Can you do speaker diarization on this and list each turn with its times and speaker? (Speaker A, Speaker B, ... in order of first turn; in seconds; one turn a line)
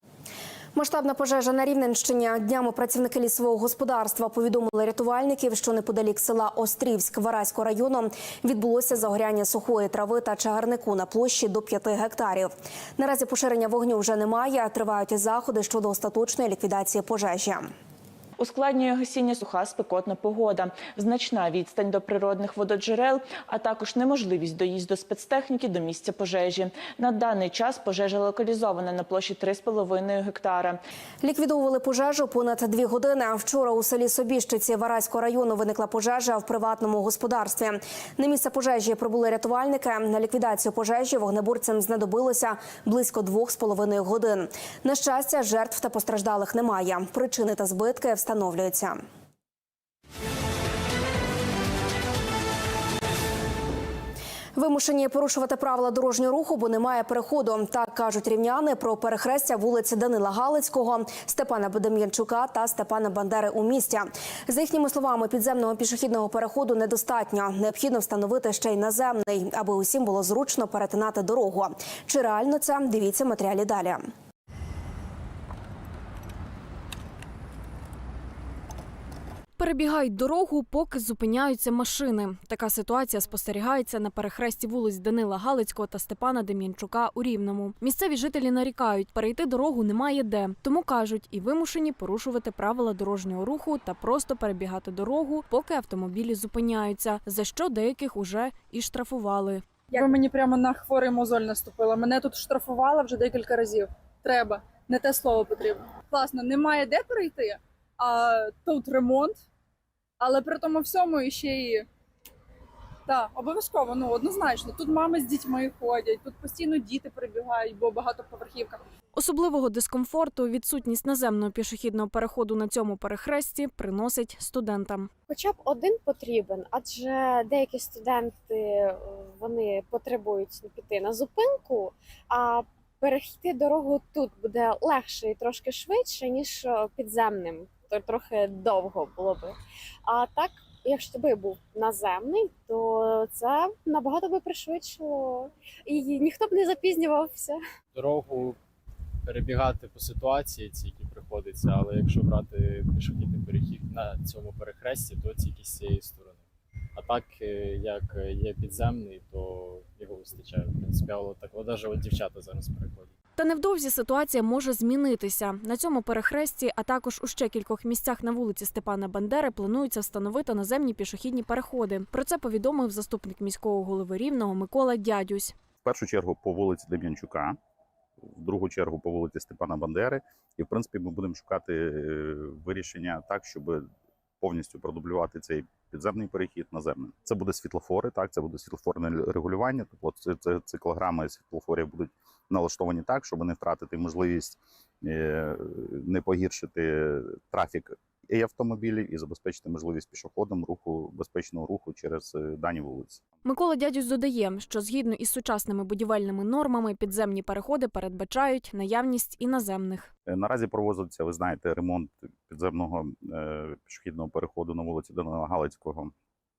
Speaker A: 0.8-17.7
Speaker B: 18.4-30.7
Speaker A: 31.2-49.0
Speaker A: 54.5-74.0
Speaker C: 79.6-99.6
Speaker D: 99.9-109.4
Speaker D: 110.2-111.8
Speaker D: 113.1-118.8
Speaker C: 119.2-125.1
Speaker E: 125.3-147.6
Speaker F: 147.9-148.6
Speaker F: 149.2-156.4
Speaker F: 157.0-163.1
Speaker C: 163.4-175.5
Speaker G: 175.8-177.6
Speaker G: 178.4-183.8
Speaker G: 184.4-203.2
Speaker C: 203.5-210.1
Speaker G: 210.3-216.1